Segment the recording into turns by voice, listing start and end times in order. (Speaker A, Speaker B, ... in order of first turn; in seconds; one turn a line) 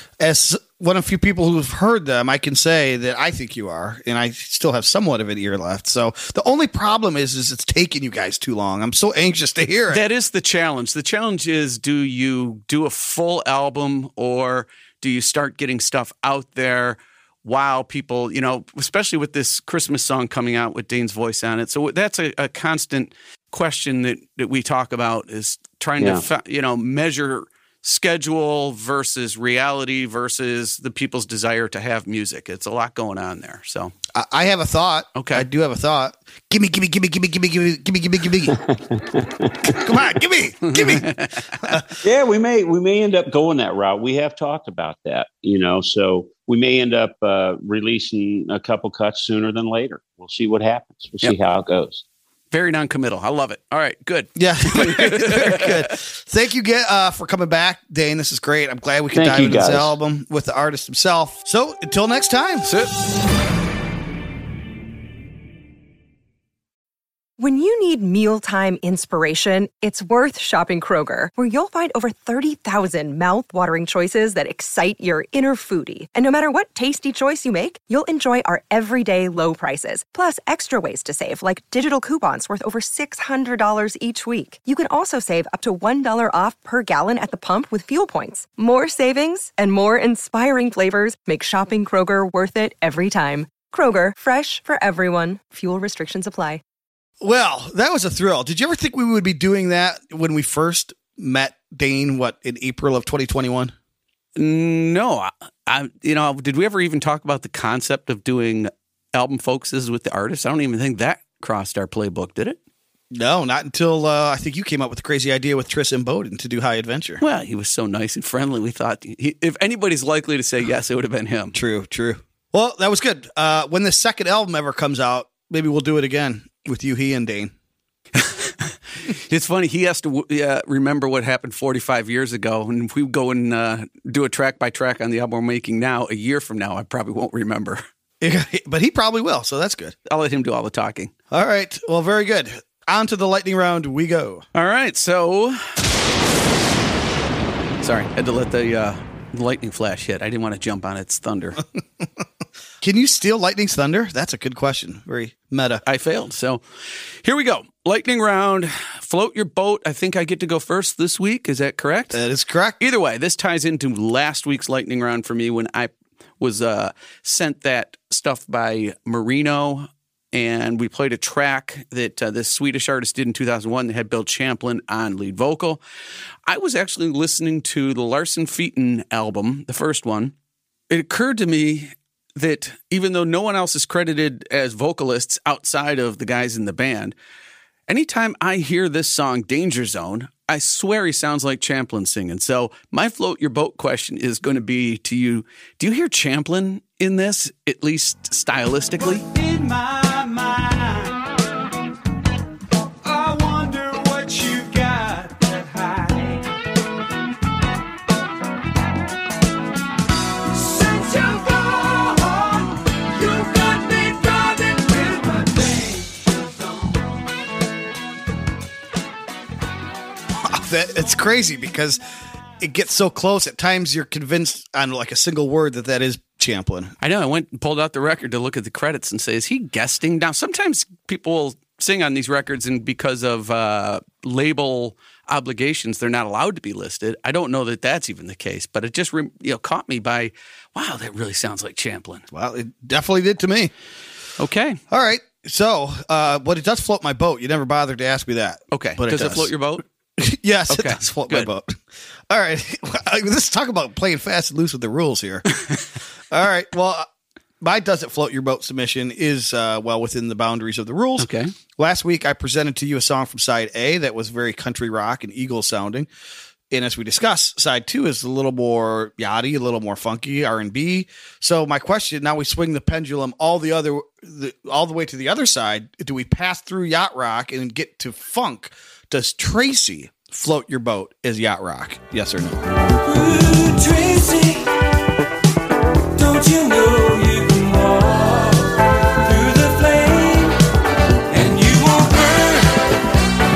Speaker A: 0.2-10.0
Speaker B: 9.9-33.9
Speaker C: 26.0-26.2
Speaker A: 34.1-38.6
Speaker B: 35.1-35.5
Speaker C: 38.6-39.9
Speaker A: 39.6-41.8
Speaker B: 40.6-41.8
Speaker C: 42.0-52.0
Speaker B: 52.5-55.8
Speaker A: 54.4-62.7
Speaker C: 59.1-59.9
Speaker B: 62.6-62.9
Speaker D: 67.4-96.6
Speaker A: 97.2-103.7
Speaker B: 104.4-112.6
Speaker A: 113.1-117.2
Speaker B: 117.2-121.6
Speaker A: 121.5-127.5
Speaker B: 128.1-137.8
Speaker A: 138.2-139.9
Speaker B: 140.1-141.1
Speaker A: 141.3-144.4
Speaker B: 144.5-145.7
Speaker B: 147.8-151.6
Speaker A: 152.8-155.8
Speaker B: 155.8-156.6
Speaker B: 157.2-162.2
Speaker A: 162.1-162.8
Speaker B: 162.8-175.8
Speaker B: 176.5-180.3
Speaker B: 180.9-187.1
Speaker B: 187.9-199.2
Speaker E: 199.0-201.3
Speaker E: 203.0-206.5
Speaker E: 210.4-216.9
Speaker A: 220.3-222.0
Speaker A: 222.6-226.9
Speaker B: 227.0-242.2
Speaker A: 242.3-243.7
Speaker B: 244.4-244.8
Speaker A: 244.9-249.5
Speaker B: 248.7-249.8
Speaker A: 250.2-255.5
Speaker B: 250.7-251.5
Speaker A: 256.3-257.1
Speaker A: 257.6-266.1
Speaker B: 261.2-261.5
Speaker A: 266.7-282.7
Speaker E: 283.0-284.7
Speaker E: 286.1-290.6
Speaker E: 291.3-292.9